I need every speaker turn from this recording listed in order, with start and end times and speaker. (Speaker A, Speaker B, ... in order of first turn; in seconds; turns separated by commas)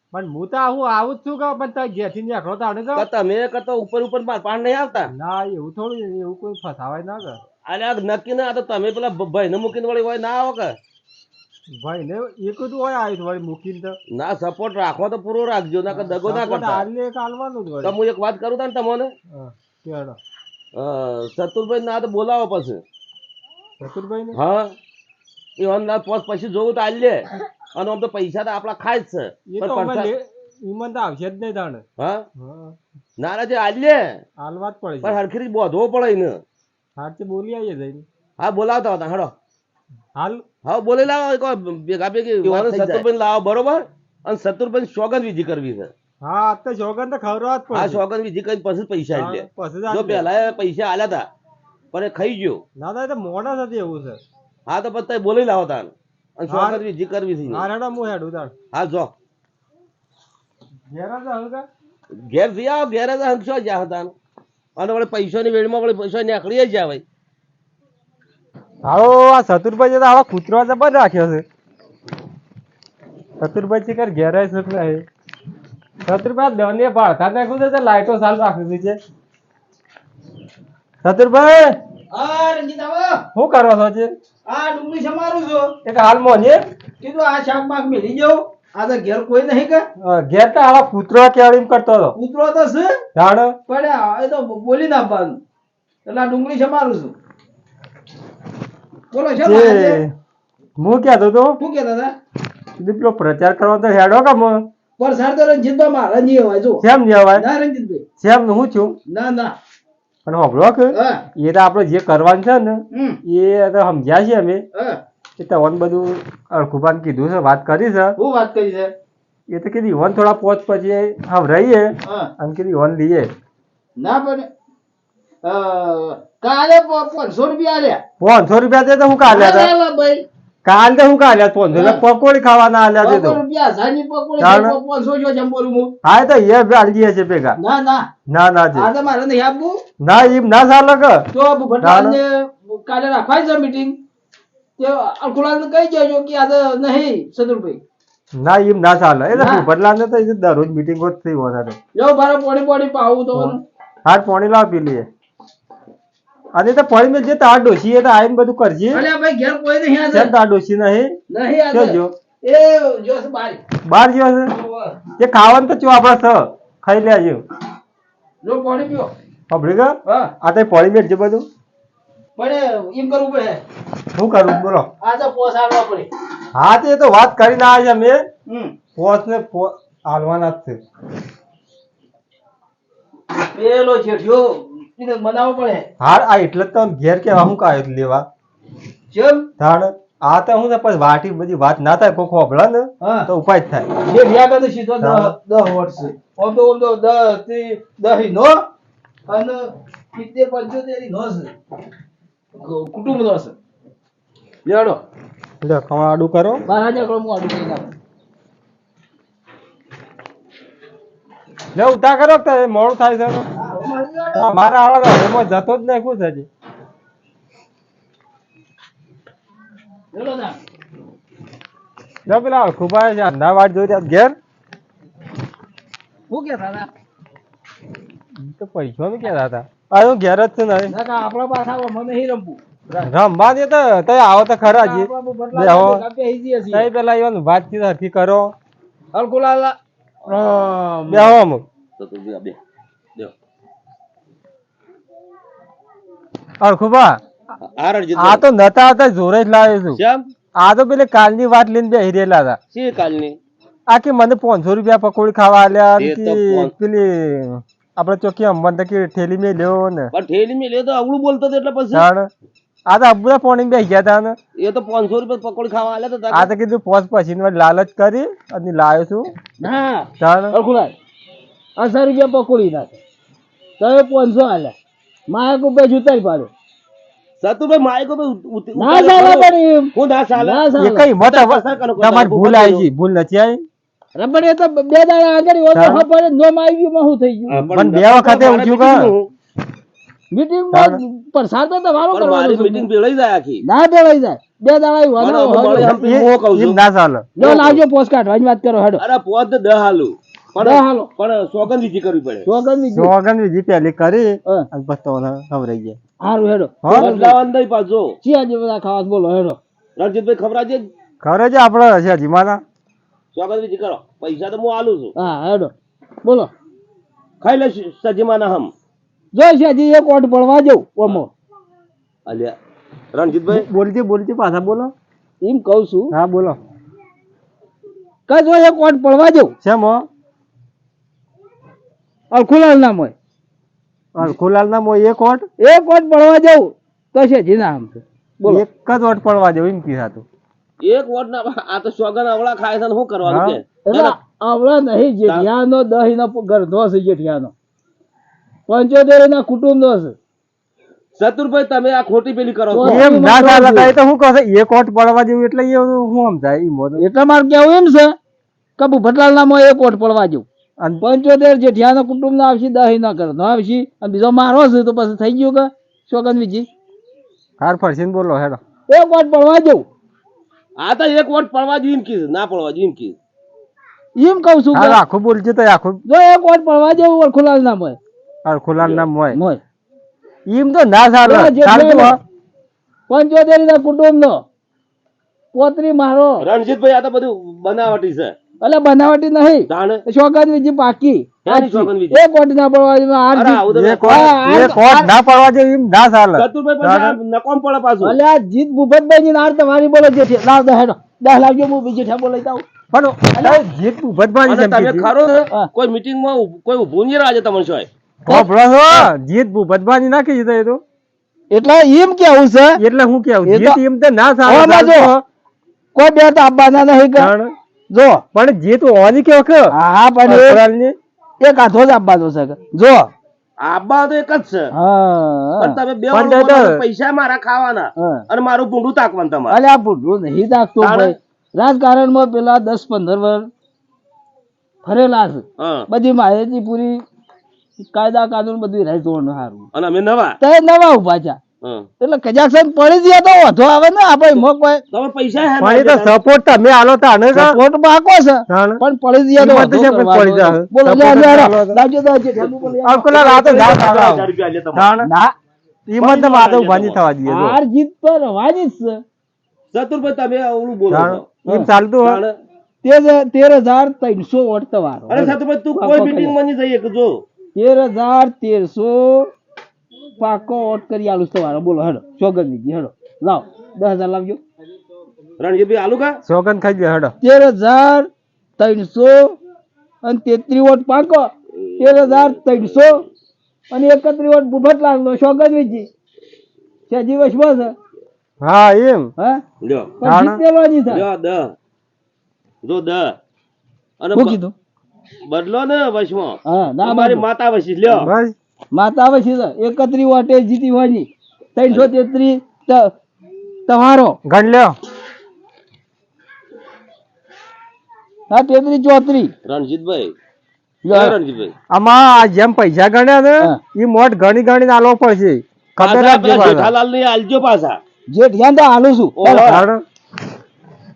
Speaker A: 0.1-3.1, Speaker B: 2.9-5.1, Speaker A: 5.1-7.4, Speaker B: 7.7-10.7, Speaker A: 11.7-13.9, Speaker B: 14.1-16.9, Speaker A: 15.9-17.9, Speaker B: 17.8-19.1, Speaker A: 19.3-20.2, Speaker B: 20.7-22.8, Speaker A: 23.8-24.4, Speaker B: 24.3-24.7, Speaker B: 25.6-30.1, Speaker A: 29.5-31.8, Speaker B: 32.0-32.2, Speaker A: 32.4-32.8, Speaker B: 33.2-34.0, Speaker A: 34.4-35.2, Speaker B: 35.0-36.4, Speaker A: 37.0-38.0, Speaker B: 38.4-39.3, Speaker A: 40.1-40.4, Speaker B: 40.6-45.9, Speaker C: 42.4-43.0, Speaker A: 42.6-42.9, Speaker A: 46.2-48.0, Speaker B: 47.7-51.3, Speaker A: 49.1-50.3, Speaker B: 51.9-52.6, Speaker A: 52.8-54.2, Speaker B: 54.7-57.6, Speaker A: 56.5-56.8, Speaker A: 57.5-58.5, Speaker B: 58.7-59.1, Speaker A: 60.9-61.7, Speaker B: 62.3-64.1, Speaker B: 64.8-67.0, Speaker A: 68.8-71.4, Speaker A: 73.4-75.0, Speaker A: 76.0-79.0, Speaker A: 81.0-81.8, Speaker C: 82.1-83.2, Speaker A: 83.3-84.1, Speaker C: 84.5-85.8, Speaker A: 85.8-86.6, Speaker C: 87.0-89.8, Speaker A: 90.0-92.1, Speaker C: 92.1-93.0, Speaker A: 93.1-93.5, Speaker C: 93.7-95.4, Speaker C: 96.0-97.1, Speaker C: 99.1-100.0, Speaker A: 99.4-100.1, Speaker A: 100.8-101.6, Speaker C: 101.6-102.1, Speaker A: 102.8-104.6, Speaker C: 105.0-106.8, Speaker A: 106.8-107.5, Speaker C: 107.4-108.0, Speaker A: 108.2-109.0, Speaker C: 109.1-109.5, Speaker A: 110.2-114.6, Speaker C: 110.9-111.2, Speaker C: 112.9-113.2, Speaker C: 114.7-115.0, Speaker A: 115.4-118.2, Speaker C: 118.2-118.9, Speaker A: 119.5-123.3, Speaker C: 122.0-122.3, Speaker C: 124.0-124.5, Speaker C: 125.4-128.0, Speaker A: 128.2-129.7, Speaker C: 129.3-130.2, Speaker A: 130.6-133.4, Speaker C: 131.7-132.0, Speaker C: 133.0-135.9, Speaker A: 134.4-134.8, Speaker A: 136.0-137.6, Speaker C: 137.6-138.1, Speaker A: 138.3-138.9, Speaker C: 138.7-139.8, Speaker A: 140.0-141.3, Speaker C: 141.3-144.0, Speaker A: 141.8-142.2, Speaker C: 144.8-147.8, Speaker A: 148.4-151.8, Speaker C: 149.3-149.7, Speaker C: 151.9-153.6, Speaker A: 153.3-155.1, Speaker A: 156.5-159.0, Speaker C: 158.9-160.3, Speaker A: 160.1-161.1, Speaker C: 161.3-163.6, Speaker A: 161.7-162.1, Speaker A: 163.8-164.5, Speaker C: 164.5-164.9, Speaker A: 165.2-167.4, Speaker C: 168.4-169.1, Speaker A: 169.5-171.4, Speaker C: 170.1-170.3, Speaker C: 172.4-173.6, Speaker A: 174.1-174.9, Speaker C: 175.0-176.1, Speaker A: 176.5-178.2, Speaker C: 178.5-178.7, Speaker A: 178.9-180.8, Speaker C: 183.5-185.9, Speaker A: 186.0-188.2, Speaker C: 189.1-189.5, Speaker A: 189.6-193.9, Speaker C: 193.0-193.3, Speaker C: 194.0-198.7, Speaker A: 195.0-195.3, Speaker C: 199.3-201.5, Speaker C: 202.6-203.5, Speaker C: 204.7-205.0, Speaker A: 205.6-206.6, Speaker C: 206.7-207.9, Speaker A: 211.7-213.5, Speaker C: 213.6-214.5, Speaker A: 214.3-216.5, Speaker C: 220.1-220.6, Speaker A: 222.3-224.3, Speaker C: 226.3-226.9, Speaker A: 228.4-230.9, Speaker C: 230.9-233.0, Speaker A: 233.1-236.0, Speaker C: 234.6-236.9, Speaker A: 236.7-238.5, Speaker C: 239.1-239.8, Speaker C: 240.3-241.4, Speaker A: 241.1-241.6, Speaker B: 242.0-242.6, Speaker A: 246.6-247.2, Speaker B: 247.8-248.4, Speaker A: 248.2-250.0, Speaker B: 249.9-250.3, Speaker A: 250.6-252.6, Speaker B: 252.7-253.4, Speaker A: 253.9-260.1, Speaker B: 256.0-256.7, Speaker B: 260.1-262.0, Speaker A: 261.9-262.3, Speaker A: 262.9-264.4, Speaker B: 264.6-266.5, Speaker A: 266.3-269.3, Speaker C: 269.6-270.9, Speaker A: 270.2-270.6, Speaker C: 271.8-272.9, Speaker C: 273.8-274.7, Speaker C: 275.3-276.5, Speaker B: 277.4-280.7, Speaker C: 278.8-281.1, Speaker A: 280.7-283.6, Speaker B: 281.2-282.9, Speaker C: 284.1-287.6, Speaker A: 285.7-286.1, Speaker B: 287.5-289.3, Speaker A: 287.7-289.1, Speaker C: 290.3-292.9, Speaker A: 290.7-291.0, Speaker B: 292.1-293.6, Speaker C: 293.6-296.2, Speaker B: 295.2-296.8, Speaker A: 295.9-297.3, Speaker C: 297.4-299.0, Speaker B: 297.4-297.8, Speaker B: 299.0-302.5, Speaker C: 300.6-301.1, Speaker C: 302.4-303.1, Speaker A: 302.9-306.0, Speaker C: 306.2-307.4, Speaker A: 306.8-307.1, Speaker B: 306.9-308.2, Speaker C: 308.2-309.6, Speaker B: 310.0-310.9, Speaker A: 311.2-312.6, Speaker B: 313.3-315.1, Speaker C: 315.1-315.7, Speaker C: 316.2-316.5, Speaker B: 317.4-318.7, Speaker C: 319.3-321.3, Speaker B: 322.2-322.6, Speaker B: 323.1-323.7, Speaker A: 323.5-324.9, Speaker C: 325.4-326.1, Speaker A: 326.1-326.6, Speaker C: 328.3-329.5, Speaker A: 329.6-330.1, Speaker C: 332.3-333.1, Speaker A: 334.1-335.5, Speaker C: 335.6-338.6, Speaker A: 338.4-340.2, Speaker B: 340.8-344.2, Speaker A: 343.2-343.6, Speaker C: 343.8-347.5, Speaker C: 348.7-350.1, Speaker B: 351.1-353.1, Speaker C: 352.7-353.9, Speaker A: 352.8-357.0, Speaker C: 357.0-358.1, Speaker C: 358.8-360.4, Speaker C: 361.0-366.7, Speaker A: 367.6-368.6, Speaker C: 368.9-369.9, Speaker B: 370.8-373.2, Speaker C: 374.1-375.0, Speaker A: 374.7-376.0, Speaker C: 376.1-378.0, Speaker A: 378.4-379.4, Speaker B: 378.8-379.1, Speaker C: 379.3-379.6, Speaker A: 380.5-382.2, Speaker C: 381.2-382.2, Speaker C: 383.1-384.4, Speaker C: 385.5-386.4, Speaker B: 386.4-388.4, Speaker C: 388.6-395.0, Speaker B: 389.7-390.0, Speaker B: 391.4-392.2, Speaker B: 393.3-394.4, Speaker A: 393.7-397.2, Speaker B: 396.4-398.2, Speaker C: 398.0-402.6, Speaker A: 402.9-405.1, Speaker C: 403.3-403.6, Speaker B: 404.4-407.9, Speaker A: 408.2-410.8, Speaker C: 408.3-409.1, Speaker C: 411.5-412.8, Speaker A: 412.8-415.2, Speaker C: 413.4-413.8, Speaker C: 414.4-415.1, Speaker C: 415.9-417.3, Speaker A: 417.1-417.5, Speaker C: 417.9-418.2, Speaker A: 418.3-419.7, Speaker C: 419.7-420.6, Speaker A: 420.2-421.0, Speaker C: 421.4-423.1, Speaker B: 423.6-424.7, Speaker C: 424.7-425.8, Speaker B: 425.6-429.6, Speaker A: 426.1-426.8, Speaker C: 428.0-428.2, Speaker C: 429.5-433.5, Speaker B: 430.8-431.1, Speaker C: 434.8-437.0, Speaker B: 435.6-435.9, Speaker C: 437.8-439.7, Speaker B: 439.7-440.4, Speaker C: 440.4-441.4, Speaker B: 441.6-441.9, Speaker C: 442.0-444.8, Speaker B: 444.9-446.2, Speaker A: 445.6-447.5, Speaker C: 447.3-453.1, Speaker A: 448.5-448.8, Speaker A: 449.4-451.8, Speaker B: 452.3-454.9, Speaker A: 452.8-455.1, Speaker C: 455.0-455.3, Speaker A: 455.9-457.6, Speaker B: 456.0-457.0, Speaker C: 457.2-459.0, Speaker B: 459.7-461.4, Speaker A: 460.9-462.2, Speaker B: 462.0-462.4, Speaker C: 462.8-466.3, Speaker B: 465.1-467.2, Speaker C: 467.5-469.3, Speaker C: 470.2-474.4, Speaker B: 475.4-476.2, Speaker A: 476.2-477.1, Speaker C: 477.2-479.4, Speaker C: 480.0-483.1, Speaker B: 481.7-482.8, Speaker C: 483.7-485.9, Speaker C: 486.9-487.7, Speaker A: 488.4-489.1, Speaker C: 489.2-489.4, Speaker B: 489.6-490.0, Speaker C: 490.0-491.1, Speaker A: 490.0-490.4, Speaker B: 490.9-491.5, Speaker B: 492.6-493.2, Speaker B: 494.0-494.4, Speaker C: 494.1-494.5, Speaker B: 495.3-498.1, Speaker C: 496.4-497.2, Speaker A: 497.9-498.3, Speaker C: 498.7-502.9, Speaker C: 503.7-504.2, Speaker A: 504.2-504.8, Speaker C: 508.3-509.3, Speaker B: 509.4-510.1, Speaker C: 510.8-511.1, Speaker B: 510.9-511.5, Speaker A: 511.7-516.7, Speaker B: 515.8-517.8, Speaker C: 518.1-519.5, Speaker B: 519.1-519.6, Speaker A: 519.4-519.8